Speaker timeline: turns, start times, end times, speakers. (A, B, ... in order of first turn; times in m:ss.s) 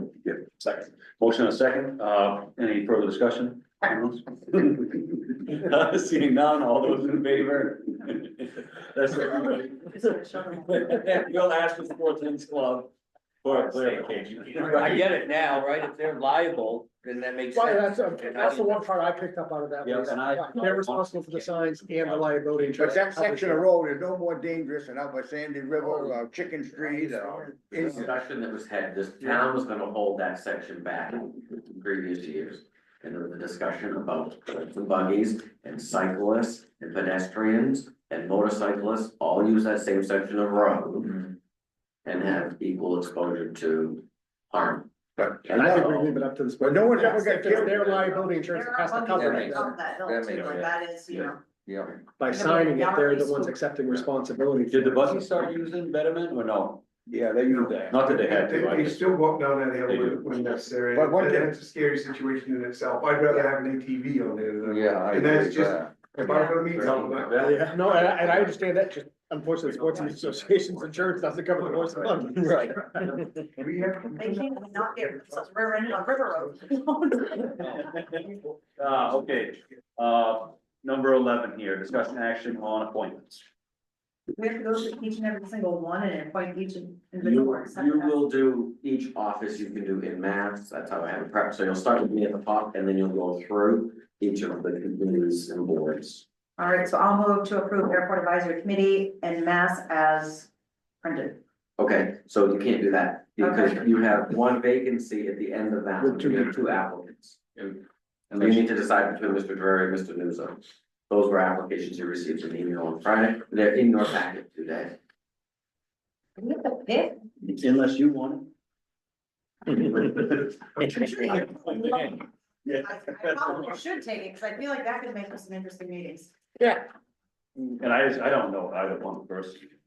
0:00.2-0:10.1 A
0:09.4-0:11.1 B
0:10.6-0:15.0 A
0:13.5-0:14.0 C
0:14.6-0:18.9 D
0:14.7-0:15.0 E
0:17.5-0:23.7 F
0:19.8-0:22.4 A
0:22.8-0:28.1 G
0:25.7-0:26.2 D
0:26.8-0:28.1 D
0:27.8-0:41.2 C
0:42.0-0:44.9 C
0:45.4-0:46.1 C
0:45.5-0:49.8 F
0:46.6-0:48.3 G
0:48.4-0:51.5 B
0:49.1-0:50.7 D
0:50.3-0:51.3 A
0:51.6-0:52.0 D
0:52.2-0:55.2 F
0:52.2-0:53.6 B
0:54.7-0:56.8 A
0:57.1-1:07.4 E
0:57.1-0:57.9 G
0:57.9-0:59.0 A
0:59.9-1:00.3 A
1:00.9-1:01.5 G
1:04.6-1:06.0 D
1:06.2-1:06.6 B
1:06.8-1:07.7 A
1:07.4-1:13.2 F
1:11.6-1:12.4 E
1:12.3-1:13.6 D
1:13.6-1:15.0 E
1:14.2-1:17.9 B
1:17.7-1:23.4 A
1:24.4-1:28.2 B
1:27.2-1:36.2 C
1:36.6-1:40.5 B
1:41.0-1:41.4 B
1:41.8-1:47.6 C
1:43.4-1:43.8 B
1:46.0-1:46.5 F
1:48.3-1:48.6 A
1:48.4-1:55.0 C
1:56.4-1:57.2 B
1:57.4-1:58.5 A
1:59.7-2:02.1 A
2:00.8-2:06.3 B
2:02.6-2:03.8 A
2:07.8-2:09.8 A